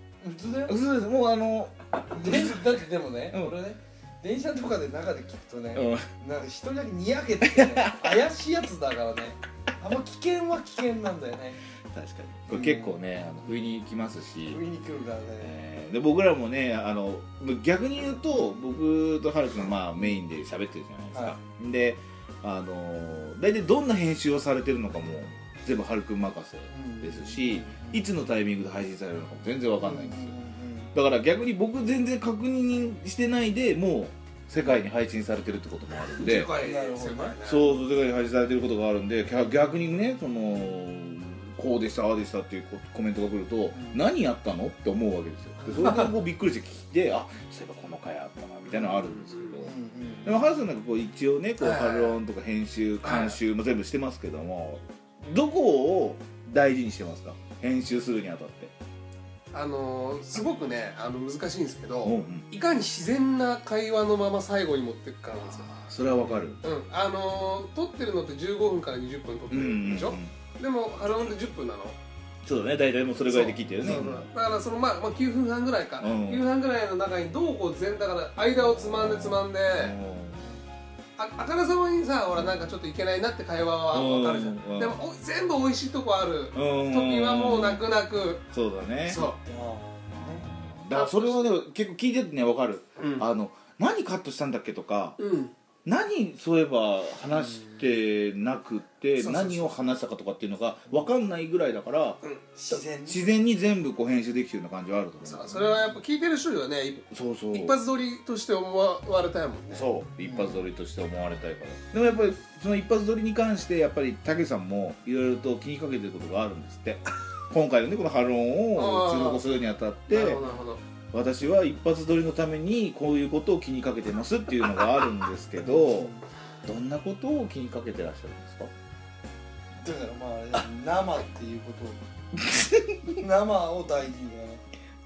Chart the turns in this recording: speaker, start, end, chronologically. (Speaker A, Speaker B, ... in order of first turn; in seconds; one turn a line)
Speaker A: 0.2-0.8
Speaker B: 0.7-2.7
Speaker A: 2.1-11.6
Speaker B: 3.3-3.6
Speaker B: 5.8-6.1
Speaker B: 7.5-8.2
Speaker B: 11.9-14.6
Speaker A: 12.5-13.0
Speaker A: 14.5-15.6
Speaker B: 15.4-30.4
Speaker A: 21.1-21.5
Speaker A: 26.7-28.1
Speaker A: 29.8-30.9
Speaker B: 30.9-36.5
Speaker C: 36.0-37.8
Speaker A: 36.5-37.4
Speaker B: 37.4-58.7
Speaker A: 43.7-44.0
Speaker C: 48.7-49.6
Speaker A: 49.6-50.5
Speaker C: 51.6-52.2
Speaker C: 53.0-53.4
Speaker C: 59.5-65.8
Speaker B: 62.0-62.5
Speaker B: 65.7-66.6
Speaker C: 66.6-72.0
Speaker B: 69.5-70.3
Speaker B: 72.4-74.3
Speaker C: 73.3-80.0
Speaker B: 76.0-76.5
Speaker B: 78.5-80.5
Speaker C: 81.2-88.4
Speaker B: 82.3-82.7
Speaker B: 83.9-85.0
Speaker B: 86.5-87.8
Speaker B: 88.5-89.2
Speaker C: 89.0-89.4
Speaker A: 89.1-90.5
Speaker B: 90.2-95.2
Speaker C: 90.9-91.5
Speaker C: 93.0-93.3
Speaker C: 95.2-95.5
Speaker B: 95.8-102.2
Speaker A: 97.3-97.8
Speaker A: 99.2-99.9
Speaker A: 102.5-103.2
Speaker B: 103.0-106.0
Speaker C: 105.2-109.9
Speaker B: 107.1-107.8
Speaker B: 109.7-120.4
Speaker A: 110.2-110.6
Speaker C: 118.8-119.4
Speaker C: 120.1-120.8
Speaker B: 121.1-126.1
Speaker A: 125.6-126.2
Speaker B: 126.6-128.7
Speaker A: 129.8-132.0
Speaker B: 132.4-133.2
Speaker A: 133.2-134.6